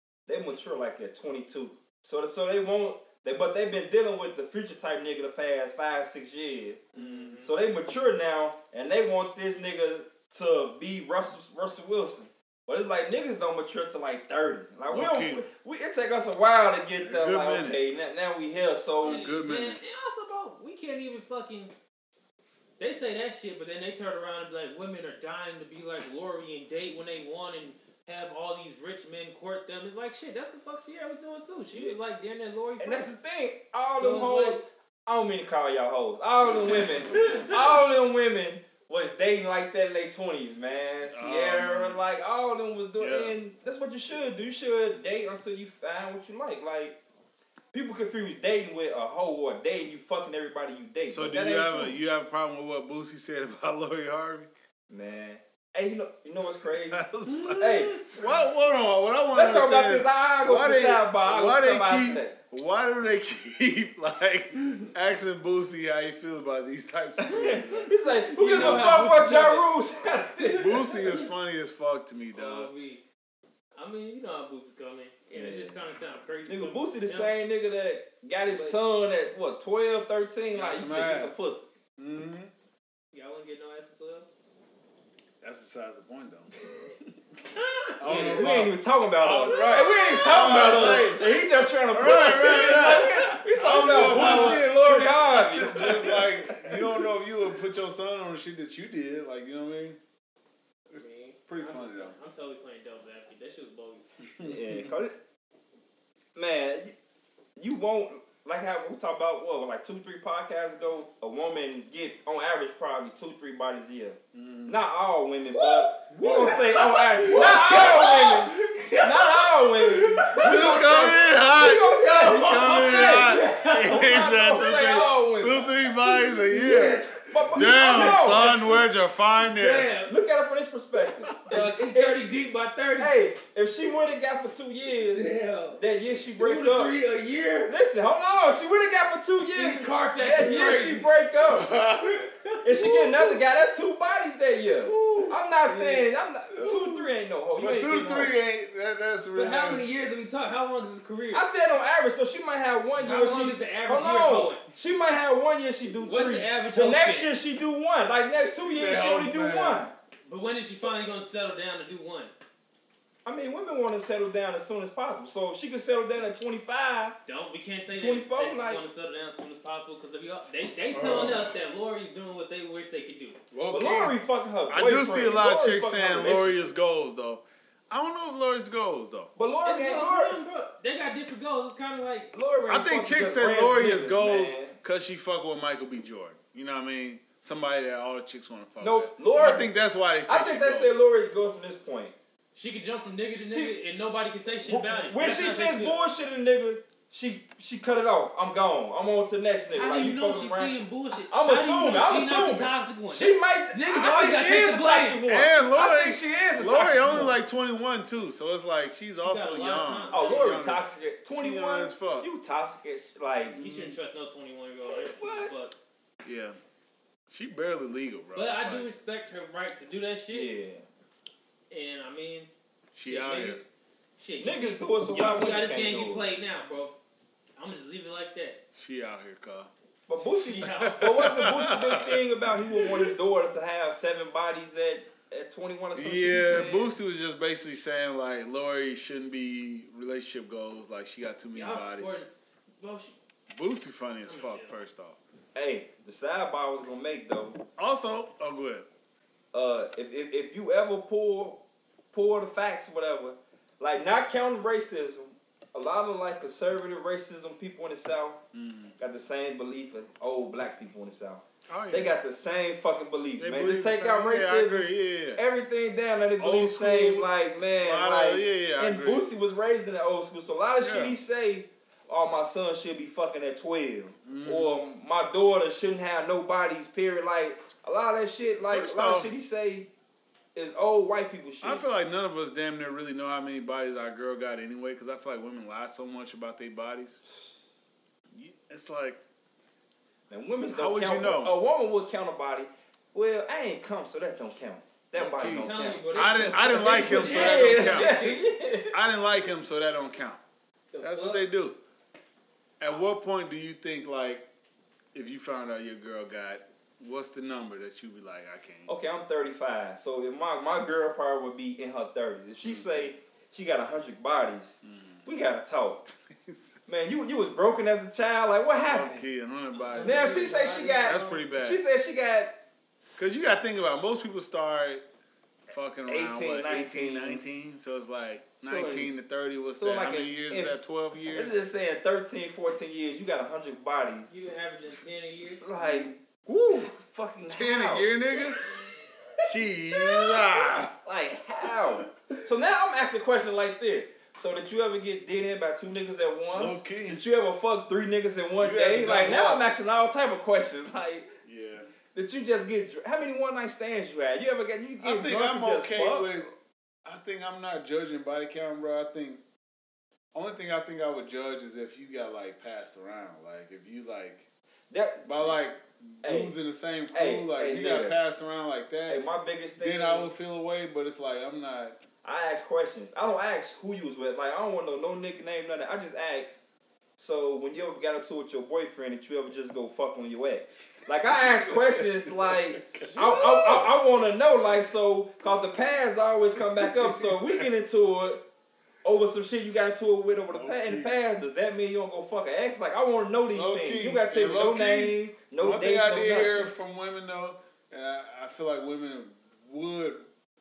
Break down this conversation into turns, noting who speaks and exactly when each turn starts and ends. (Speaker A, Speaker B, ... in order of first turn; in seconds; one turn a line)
Speaker A: 0.3-19.3
Speaker B: 6.9-7.5
Speaker C: 14.9-15.4
Speaker C: 17.0-17.8
Speaker C: 19.0-19.8
Speaker B: 19.0-21.7
Speaker B: 22.8-33.1
Speaker A: 32.8-47.0
Speaker B: 34.0-34.6
Speaker B: 37.1-37.5
Speaker C: 41.1-42.0
Speaker C: 43.0-43.4
Speaker A: 47.7-52.0
Speaker C: 51.1-54.5
Speaker A: 54.9-58.1
Speaker C: 56.9-67.9
Speaker A: 59.3-62.4
Speaker A: 67.3-70.9
Speaker B: 67.7-69.7
Speaker C: 68.5-69.0
Speaker C: 70.5-72.7
Speaker B: 72.3-73.0
Speaker B: 73.8-77.3
Speaker A: 75.3-75.8
Speaker A: 76.5-81.7
Speaker B: 78.5-78.8
Speaker C: 80.5-81.4
Speaker C: 82.0-82.5
Speaker B: 83.1-84.3
Speaker C: 85.4-86.6
Speaker B: 87.6-88.4
Speaker C: 88.0-100.0
Speaker A: 88.1-96.8
Speaker B: 89.6-91.2
Speaker B: 94.0-94.7
Speaker C: 100.9-102.1
Speaker B: 101.0-104.1
Speaker C: 104.4-104.9
Speaker A: 104.4-105.2
Speaker A: 106.3-106.9
Speaker A: 107.6-125.7
Speaker C: 114.3-114.8
Speaker B: 115.5-125.0
Speaker C: 116.2-116.7
Speaker C: 117.3-117.9
Speaker C: 119.8-130.0
Speaker B: 126.0-128.9
Speaker A: 127.3-128.7
Speaker B: 129.5-130.1
Speaker A: 130.1-132.3
Speaker B: 131.5-133.2
Speaker A: 133.0-136.9
Speaker B: 135.1-135.8
Speaker B: 136.4-137.8
Speaker A: 137.7-141.7
Speaker B: 139.5-141.1
Speaker C: 140.4-140.8
Speaker C: 141.5-142.3
Speaker B: 142.0-143.4
Speaker A: 142.6-148.3
Speaker C: 144.9-145.4
Speaker B: 145.6-146.1
Speaker C: 146.5-150.0
Speaker B: 149.3-151.5
Speaker A: 151.3-159.9
Speaker B: 153.0-154.7
Speaker B: 156.0-157.3
Speaker C: 158.6-159.8
Speaker B: 160.3-162.3
Speaker A: 163.2-167.2
Speaker B: 167.3-173.4
Speaker A: 167.9-168.8
Speaker C: 170.9-171.5
Speaker C: 173.5-174.2
Speaker A: 173.7-176.7
Speaker C: 174.7-179.3
Speaker A: 179.4-180.4
Speaker B: 179.7-182.3
Speaker A: 182.3-184.8
Speaker C: 182.7-190.9
Speaker A: 188.8-189.7
Speaker A: 190.3-192.1
Speaker B: 192.6-196.0
Speaker A: 193.5-193.7
Speaker A: 194.7-200.8
Speaker B: 199.7-205.2
Speaker A: 201.3-207.4
Speaker C: 205.3-212.3
Speaker B: 209.2-210.7
Speaker A: 210.1-213.6
Speaker C: 213.5-214.0
Speaker B: 213.6-215.8
Speaker A: 214.8-215.5
Speaker C: 216.2-216.6
Speaker C: 217.3-218.9
Speaker B: 218.3-220.5
Speaker A: 220.3-220.8
Speaker B: 221.7-226.9
Speaker C: 222.9-223.6
Speaker A: 224.4-226.3
Speaker B: 227.6-228.6
Speaker C: 228.8-229.7
Speaker A: 230.1-236.9
Speaker B: 230.2-231.2
Speaker C: 230.7-233.1
Speaker C: 235.9-242.2
Speaker B: 241.5-243.2
Speaker C: 243.5-245.2
Speaker B: 244.2-244.8
Speaker A: 245.6-247.6
Speaker C: 247.8-248.9
Speaker A: 249.5-251.6
Speaker A: 252.1-258.4
Speaker C: 258.5-258.9
Speaker A: 259.0-279.9
Speaker C: 261.7-262.2
Speaker C: 263.4-265.4
Speaker C: 266.4-269.3
Speaker C: 270.8-271.2
Speaker C: 274.2-274.8
Speaker C: 278.7-279.3
Speaker A: 280.6-281.9
Speaker C: 281.6-287.2
Speaker C: 288.3-289.2
Speaker A: 290.3-299.0
Speaker C: 290.7-291.6
Speaker C: 295.1-298.3
Speaker B: 295.4-298.5
Speaker C: 298.9-300.4
Speaker B: 300.9-301.4
Speaker C: 301.0-301.8
Speaker C: 302.8-304.4
Speaker C: 305.1-308.9
Speaker A: 308.9-316.0
Speaker C: 312.6-313.0
Speaker C: 314.8-315.2
Speaker C: 316.3-316.8
Speaker A: 316.9-319.3
Speaker C: 318.9-321.8
Speaker B: 319.8-321.4
Speaker A: 320.0-322.6
Speaker C: 323.2-325.0
Speaker C: 325.7-331.5
Speaker A: 326.1-327.4
Speaker A: 328.6-329.1
Speaker A: 329.8-330.8
Speaker A: 331.3-334.3
Speaker B: 334.3-335.6
Speaker A: 335.6-338.5
Speaker C: 335.8-336.1
Speaker C: 337.5-338.6
Speaker C: 339.4-340.9
Speaker A: 340.0-351.3
Speaker C: 341.6-342.1
Speaker C: 346.5-347.2
Speaker C: 348.6-349.7
Speaker C: 351.4-351.9
Speaker A: 352.1-356.3
Speaker C: 355.0-356.5
Speaker C: 357.0-359.4
Speaker C: 360.3-364.5
Speaker A: 364.9-365.6
Speaker C: 365.2-369.2
Speaker A: 366.2-366.5
Speaker A: 367.1-368.2
Speaker A: 369.1-370.3
Speaker C: 369.8-372.0
Speaker A: 372.2-376.6
Speaker A: 377.2-388.4
Speaker C: 381.3-383.9
Speaker C: 386.6-387.6
Speaker A: 389.0-396.7
Speaker C: 390.5-391.1
Speaker C: 393.5-400.2